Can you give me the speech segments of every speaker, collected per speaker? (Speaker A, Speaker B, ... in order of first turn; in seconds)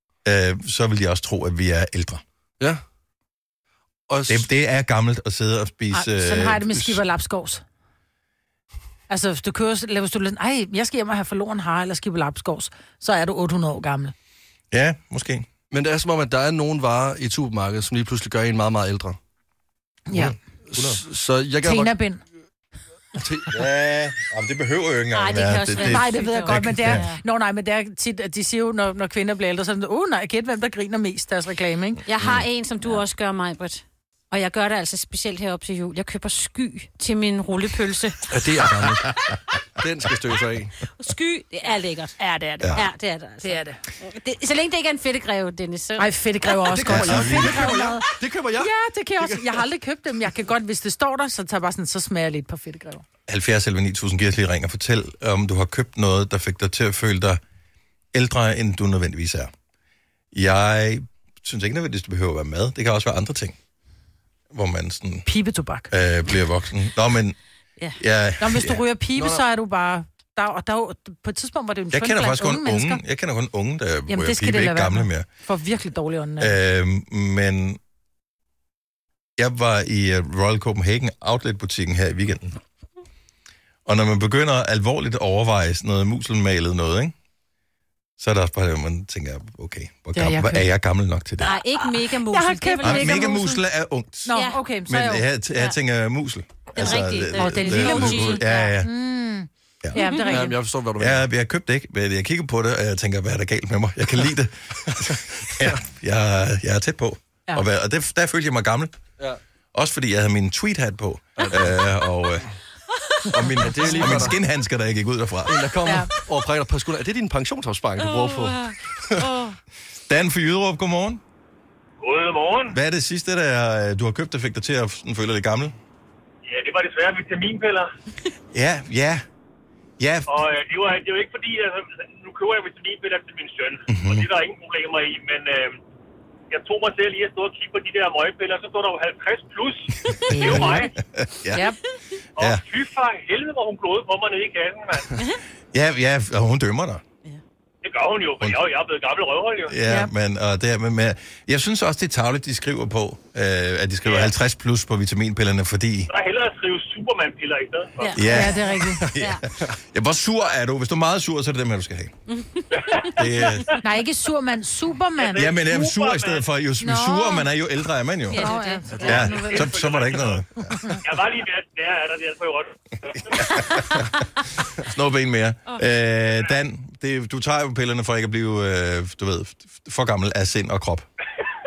Speaker A: 0.2-2.2, 4.3-7.0, 14.7-15.5, 20.1-21.0, 23.5-27.1, 38.7-39.3, 42.6-42.9, 46.9-47.7, 53.3-57.4, 58.1-59.5, 60.3-63.5, 64.5-65.3, 65.9-67.3, 68.0-68.8, 71.9-75.2, 76.4-77.8, 79.4-82.5, 83.8-87.1, 88.2-91.6, 92.8-98.9, 101.0-109.0, 109.7-112.4, 113.3-115.6, 120.1-121.2, 122.7-125.7, 128.5-129.2, 130.0-130.3, 133.9-134.3, 140.3-141.7, 145.7-147.0, 149.7-156.1, 158.1-162.1, 163.1-163.7, 165.3-168.4, 169.0-170.9, 173.3-174.0, 174.9-181.1
Speaker B: 4.1-4.5, 15.7-19.2, 20.7-22.0, 23.1-23.5, 38.3-39.1, 39.8-40.7, 46.7-49.6, 69.2-69.4, 100.2-101.2, 111.4-111.8, 113.6-114.4, 115.5-119.2
Speaker C: 5.9-7.6, 9.1-14.1, 20.1-20.3, 21.6-22.2, 25.8-32.0, 42.2-42.8, 43.4-43.8, 46.0-48.0, 48.6-53.0, 65.2-65.9, 68.4-73.0, 74.1-76.5, 90.1-90.7, 92.3-93.6, 94.2-95.2, 97.3-100.5, 140.3-140.9, 158.2-159.0, 163.8-165.5, 166.8-167.5, 168.3-169.7
Speaker D: 25.1-27.2, 32.1-38.3, 41.0-42.1, 42.7-46.5, 91.4-93.4, 94.3-94.6, 96.7-98.7, 118.0-119.6, 158.0-158.4, 159.2-159.4, 162.3-163.0, 168.3-169.4
Speaker E: 122.0-122.8, 126.5-127.9, 130.3-135.8, 136.5-140.9, 142.4-145.1, 147.8-149.7, 154.1-154.3, 156.1-158.2, 162.7-163.0, 165.2-166.4, 169.4-170.4, 171.0-173.6